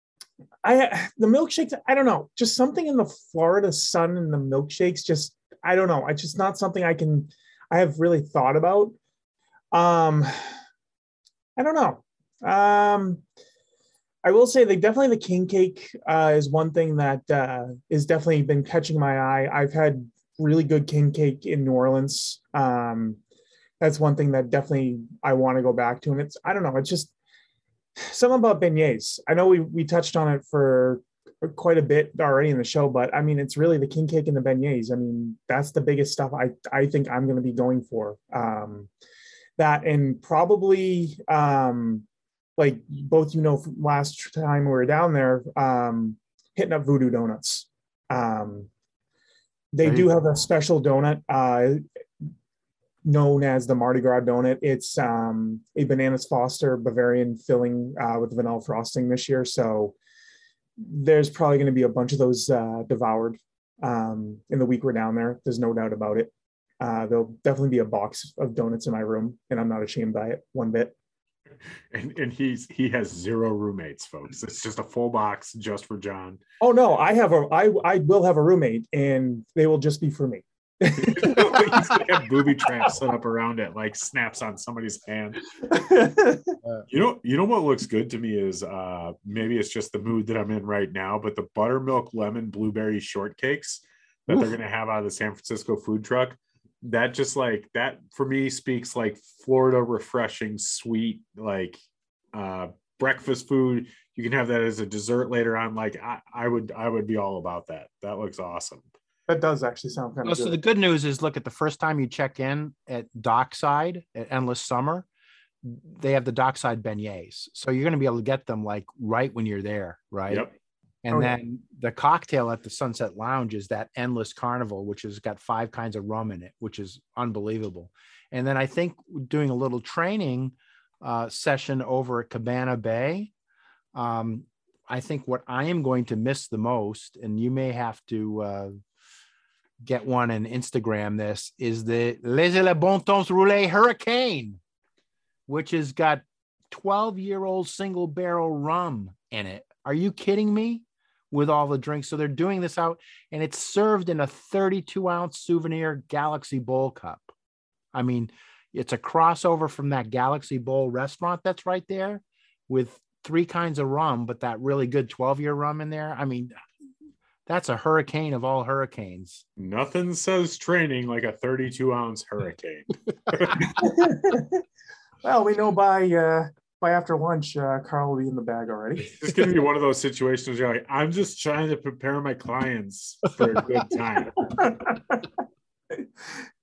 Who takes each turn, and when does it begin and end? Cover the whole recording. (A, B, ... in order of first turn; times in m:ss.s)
0:00.6-0:08.9 A
0:09.7-0:10.4 A
0:11.6-0:13.2 A
0:14.2-0:23.2 A
0:23.8-0:27.1 A
0:28.0-0:38.9 A
0:39.6-0:42.0 A
0:42.6-0:48.7 A
0:49.7-0:51.8 A
0:49.8-0:50.1 B
0:53.0-0:59.9 A
1:00.8-1:10.9 A
1:11.9-1:16.4 C
1:16.6-1:22.0 A
1:20.9-1:25.4 C
1:25.7-1:26.6 A
1:26.9-1:41.8 C
1:42.3-1:48.9 C
1:49.3-1:50.6 A
1:50.2-1:55.1 B
1:55.6-2:00.5 B
2:01.0-2:13.3 B
2:13.9-2:18.8 B
2:19.8-2:24.6 B
2:25.5-2:37.3 B
2:37.9-2:46.6 B
2:47.5-2:49.4 B
2:49.6-2:53.7 C
2:53.7-2:54.6 A
2:55.2-2:59.4 A
2:59.1-3:04.7 C
3:04.6-3:05.2 A